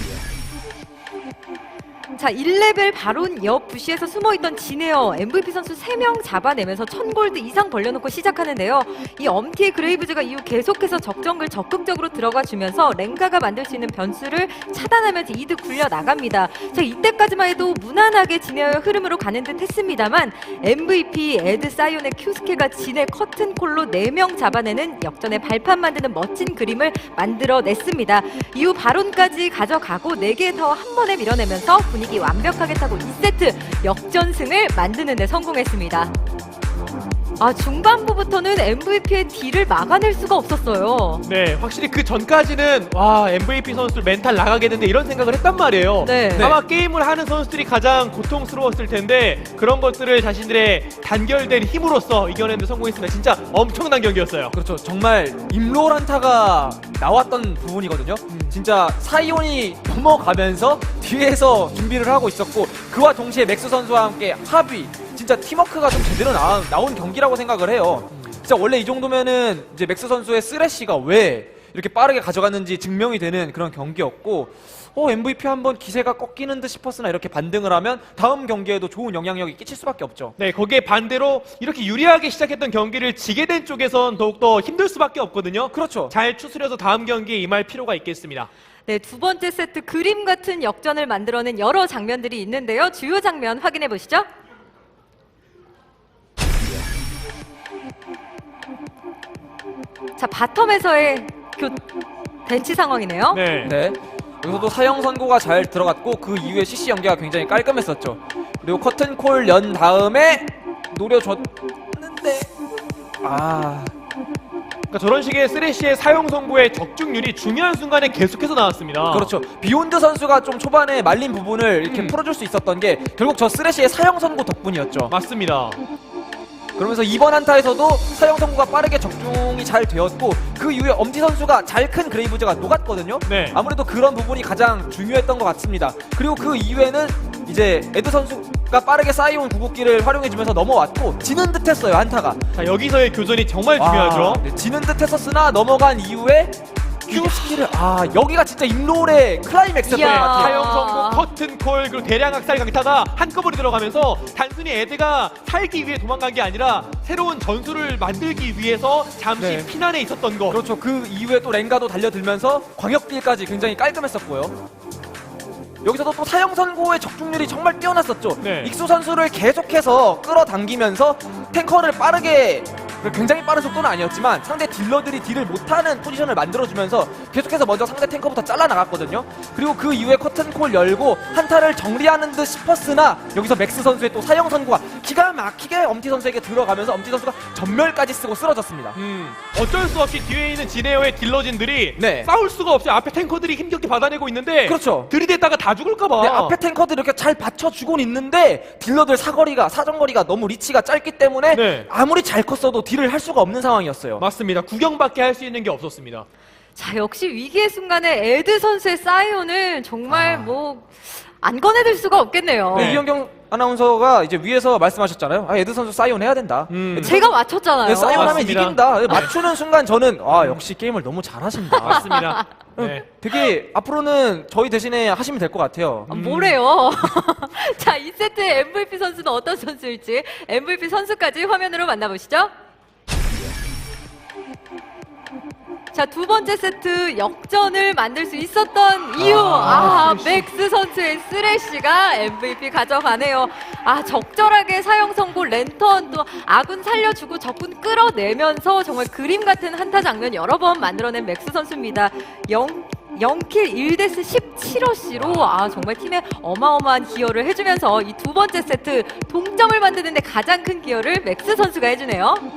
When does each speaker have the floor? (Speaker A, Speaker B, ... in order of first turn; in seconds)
Speaker A: 2.1-36.1, 37.4-41.2, 46.0-46.5, 88.8-94.3, 100.2-101.8, 102.5-103.5, 149.8-151.3, 206.8-213.0, 217.0-218.5, 221.9-222.2, 226.1-232.5, 235.9-262.5
Speaker B: 41.2-54.5, 58.3-58.5, 80.4-88.5, 103.3-103.7, 114.9-119.3, 121.8-122.2, 125.1-125.8, 133.2-133.6, 142.5-144.4, 147.1-147.6, 149.8-160.6, 168.4-168.7, 188.9-196.6, 201.5-201.9, 204.2-206.2, 210.1-210.5, 212.7-213.0, 216.7-217.3, 218.0-219.3, 221.7-223.1, 226.1-226.6, 239.2-240.5, 255.2-255.5
Speaker C: 46.3-46.6, 54.5-80.3, 85.7-86.1, 103.6-112.5, 113.2-113.9, 119.1-125.1, 126.8-142.4, 143.8-150.6, 159.4-159.7, 160.5-164.6, 165.8-189.0, 192.0-192.3, 194.6-195.1, 196.2-204.2, 212.7-222.1, 222.8-226.1